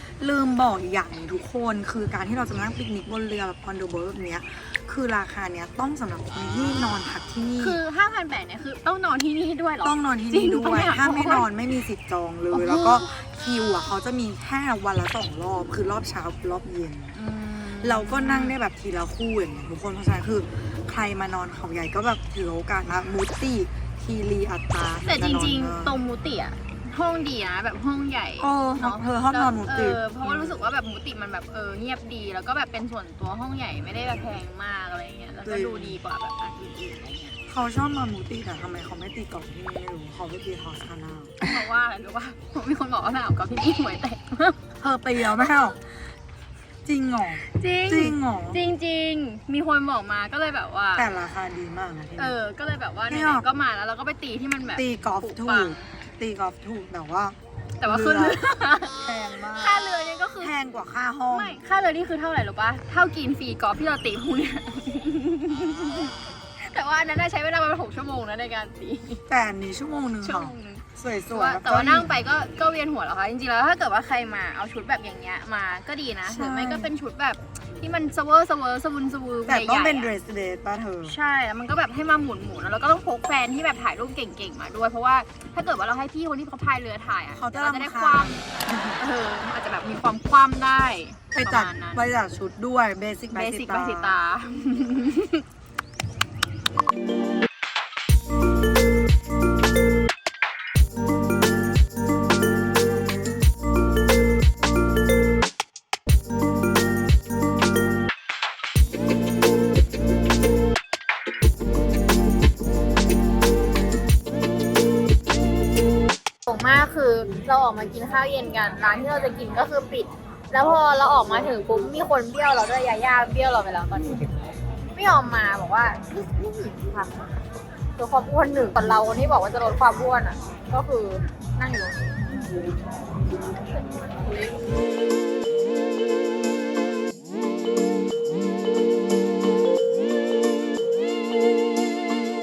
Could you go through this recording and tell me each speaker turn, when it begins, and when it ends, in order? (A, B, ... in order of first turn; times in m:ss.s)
0:00.2-0:07.8 A
0:07.6-0:11.5 B
0:09.8-0:17.2 A
0:12.5-0:13.1 B
0:17.2-0:18.6 B
0:17.8-0:26.0 A
0:25.0-0:37.4 B
0:28.4-0:30.6 A
0:35.4-0:36.0 A
0:37.5-0:41.4 A
0:41.4-0:44.6 B
0:44.8-0:45.9 A
0:46.8-0:48.6 A
0:47.5-0:51.1 B
0:51.0-0:52.4 A
0:52.2-0:55.9 B
0:53.1-0:53.4 A
0:54.8-0:58.4 A
0:57.8-0:59.0 B
0:59.0-0:59.9 A
0:59.5-1:00.5 B
1:00.4-1:01.6 A
1:01.3-1:09.2 B
1:09.3-1:12.1 A
1:10.2-1:20.1 B
1:16.3-1:16.9 A
1:19.5-1:21.2 A
1:21.1-1:28.4 B
1:27.3-1:29.0 A
1:29.0-1:32.0 B
1:31.3-1:34.2 A
1:33.3-1:35.4 B
1:56.5-2:04.2 B
2:04.9-2:07.2 B
2:08.0-2:12.0 B